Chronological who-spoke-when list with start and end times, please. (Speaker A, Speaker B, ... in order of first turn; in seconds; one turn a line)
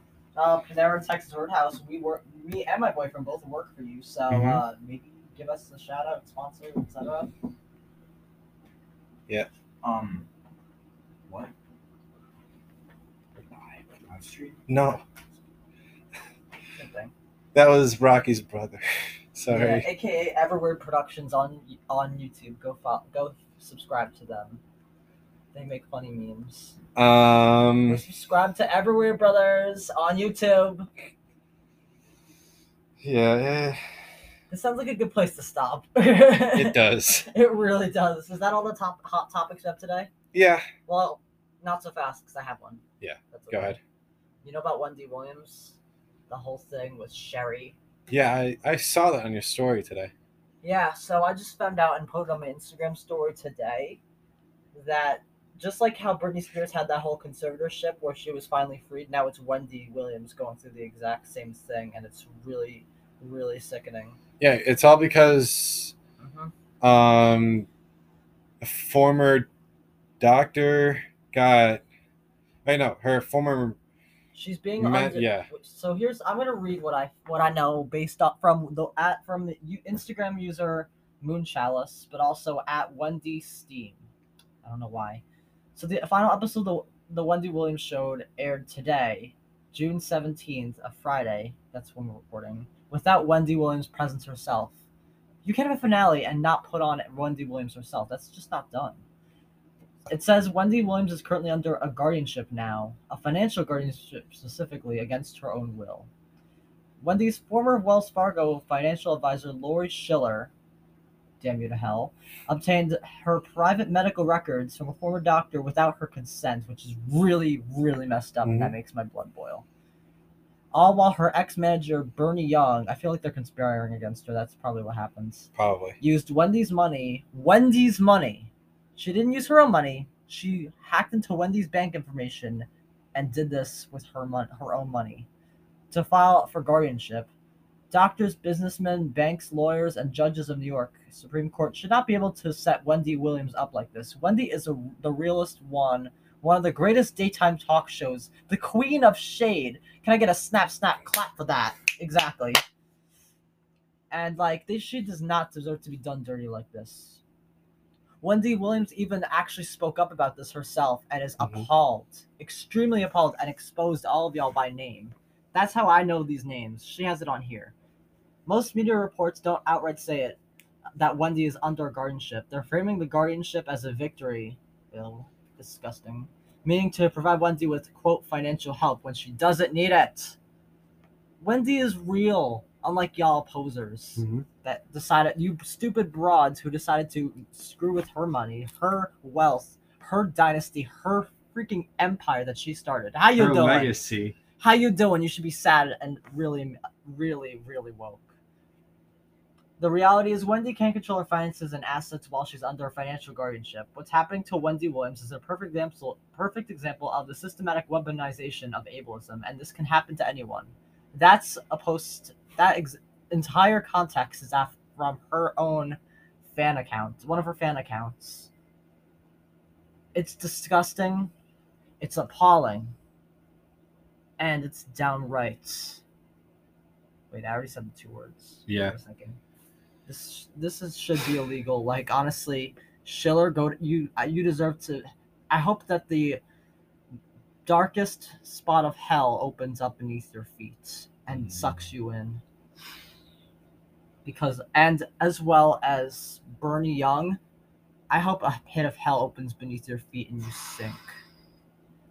Speaker A: 0.3-7.3
Speaker B: 4.3-4.6
Speaker C: 9.8-10.3
Speaker C: 11.3-11.5
Speaker C: 13.4-14.6
Speaker B: 14.7-15.0
Speaker A: 16.7-17.1
Speaker B: 17.5-19.9
Speaker A: 19.5-24.6
Speaker A: 25.5-26.8
Speaker B: 26.9-28.0
Speaker A: 27.9-30.9
Speaker B: 33.0-33.8
Speaker A: 34.5-40.1
Speaker B: 36.5-37.3
Speaker B: 40.3-40.7
Speaker A: 40.9-43.8
Speaker B: 43.0-43.8
Speaker A: 44.4-45.8
Speaker A: 46.3-47.8
Speaker B: 48.1-50.1
Speaker A: 50.6-54.0
Speaker A: 54.7-64.2
Speaker B: 64.4-65.9
Speaker A: 66.2-66.5
Speaker B: 66.8-67.7
Speaker B: 68.6-69.5
Speaker B: 70.2-71.8
Speaker B: 72.6-73.8
Speaker A: 74.3-84.0
Speaker B: 74.8-75.5
Speaker A: 84.6-85.2
Speaker A: 85.8-94.7
Speaker A: 95.4-99.0
Speaker A: 100.1-106.1
Speaker A: 107.0-110.5
Speaker A: 111.4-119.6
Speaker B: 118.4-118.7
Speaker A: 120.7-125.5
Speaker B: 125.5-126.0
Speaker A: 126.0-135.3
Speaker A: 135.9-137.3
Speaker A: 137.9-152.6
Speaker A: 154.1-157.2
Speaker A: 158.2-167.7
Speaker B: 161.4-161.7
Speaker A: 168.4-170.4
Speaker A: 171.0-180.4
Speaker A: 181.4-194.0
Speaker B: 184.2-184.4
Speaker B: 193.4-194.3
Speaker A: 194.6-198.3
Speaker A: 199.8-218.5
Speaker A: 220.1-221.3
Speaker A: 222.0-222.9
Speaker A: 224.4-226.0
Speaker A: 227.3-229.4
Speaker B: 228.7-228.9
Speaker A: 230.1-236.4
Speaker A: 237.7-242.4
Speaker A: 244.2-247.4
Speaker A: 248.1-251.0